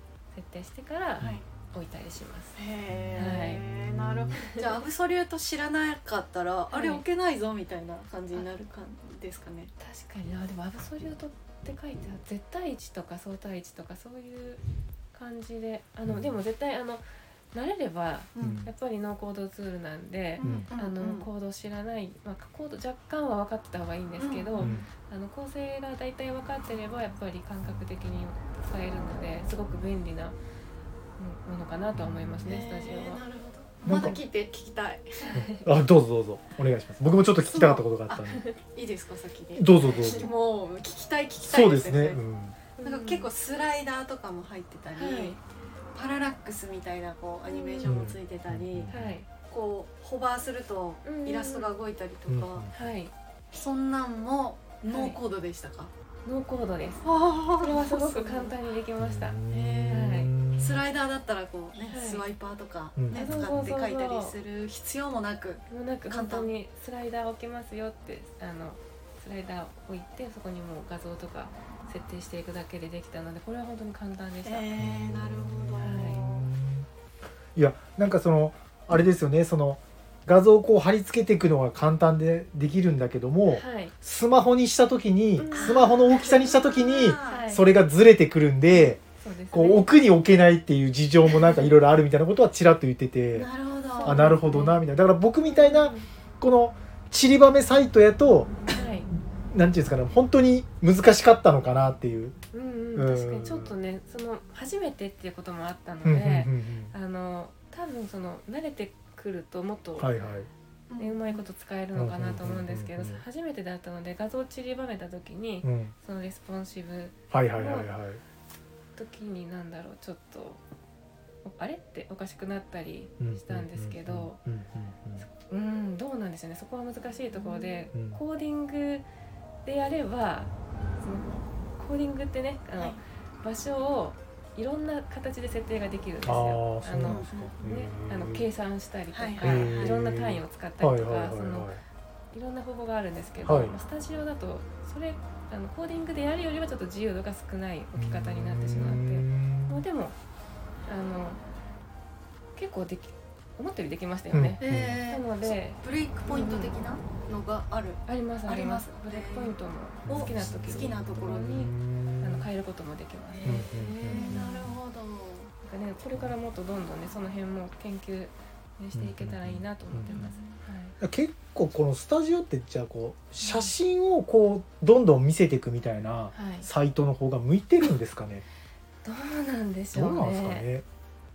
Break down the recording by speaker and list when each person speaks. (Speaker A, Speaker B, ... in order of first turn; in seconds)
Speaker A: 0.3-2.6, 3.1-3.6, 6.7-7.0, 9.8-14.6, 15.1-30.4, 31.2-33.2, 42.8-43.3, 45.0-45.4, 47.5-48.0, 48.9-49.3, 51.0-51.7, 52.7-53.1, 54.9-55.2, 56.2-57.0, 57.6-60.3, 61.9-62.2, 63.1-64.4, 65.7-74.7, 75.8-76.3, 83.5-83.9, 85.4-85.9, 87.2-87.7, 88.8-89.9, 94.0-94.8, 95.5-96.1, 98.7-99.1, 102.5-110.1, 111.0-117.9, 119.0-120.6, 121.4-124.4, 125.3-129.1, 129.7-141.7, 142.3-150.2, 150.9-151.4, 152.6-156.8, 158.1-164.5, 165.6-171.0, 173.4-173.7, 176.3-176.7, 179.0-180.7
Speaker B: 2.6-9.7, 18.4-18.6, 20.4-21.3, 24.2-24.8, 32.4-35.4, 37.4-42.2, 42.8-45.4, 46.0-49.0, 49.5-52.7, 53.5-55.9, 57.0-58.6, 59.5-66.5, 74.4-76.4, 85.5-87.5, 93.3-94.2, 110.9-111.4, 137.0-137.6, 139.1-140.0, 154.6-161.6, 163.3-165.5, 170.1-170.6
Speaker C: 2.9-4.4, 16.1-16.3, 18.4-18.7, 20.4-20.7, 24.6-24.9, 31.9-32.5, 33.9-34.2, 35.4-38.4, 39.6-40.3, 41.4-42.6, 47.8-49.1, 52.3-52.8, 59.0-60.9, 63.0-63.7, 74.8-76.9, 77.6-89.0, 89.5-93.5, 94.0-98.6, 99.5-102.4, 103.0-103.8, 106.0-106.9, 110.0-110.5, 111.9-113.2, 115.6-115.9, 117.3-118.2, 123.2-125.3, 127.9-128.2, 136.2-138.5, 139.4-141.8, 143.4-143.8, 148.0-149.8, 154.3-155.0, 160.1-162.5, 163.4-164.8, 166.0-166.3, 168.9-170.4, 171.0-178.4, 179.9-180.8